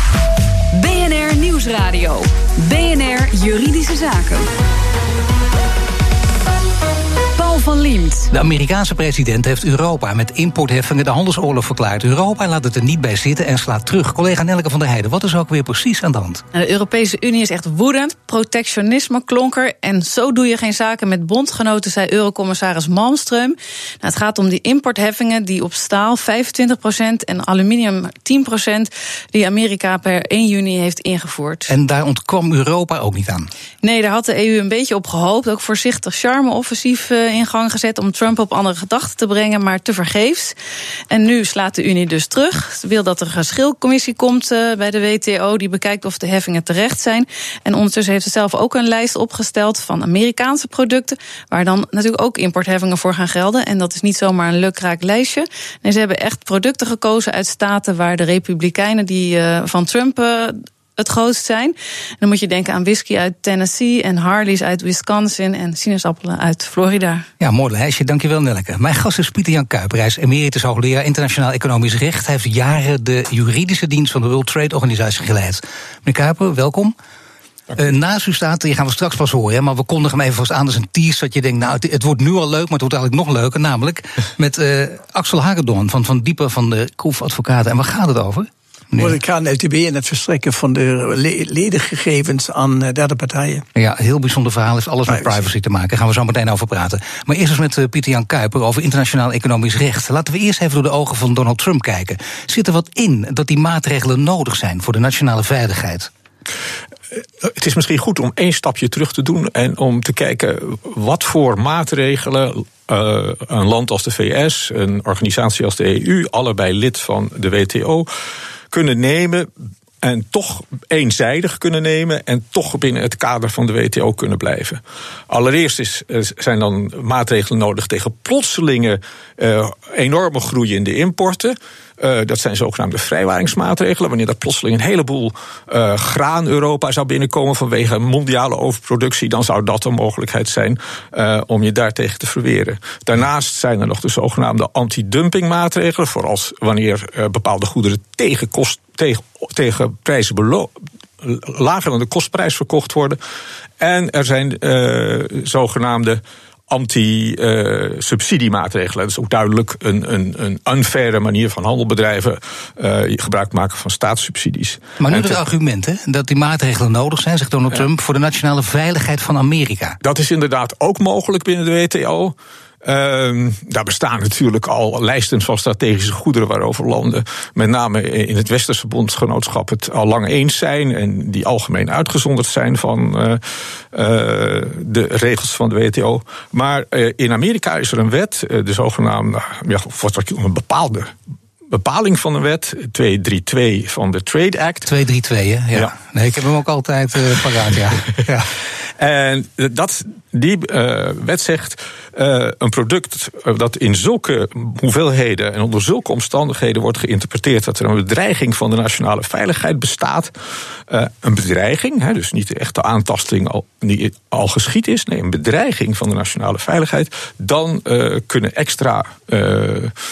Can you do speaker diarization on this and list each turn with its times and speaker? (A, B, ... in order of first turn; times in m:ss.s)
0:00.7-0:04.5 A
0:07.4-0:08.3 A
0:08.3-0:16.4 B
0:16.5-0:31.7 C
0:31.7-0:33.5 B
0:33.8-0:40.5 C
0:41.1-1:07.3 C
1:07.4-1:16.9 B
1:17.8-1:29.2 B
1:29.0-1:33.6 D
1:33.8-1:46.1 B
1:47.4-1:58.1 E
1:58.7-1:59.5 E
2:00.0-2:33.2 E
2:33.8-2:45.4 E
2:45.0-2:50.0 B
2:50.0-3:03.4 E
3:03.9-3:11.1 E
3:11.7-3:14.9 E
3:14.9-3:18.5 B
3:19.0-3:30.3 E
3:30.9-3:39.9 E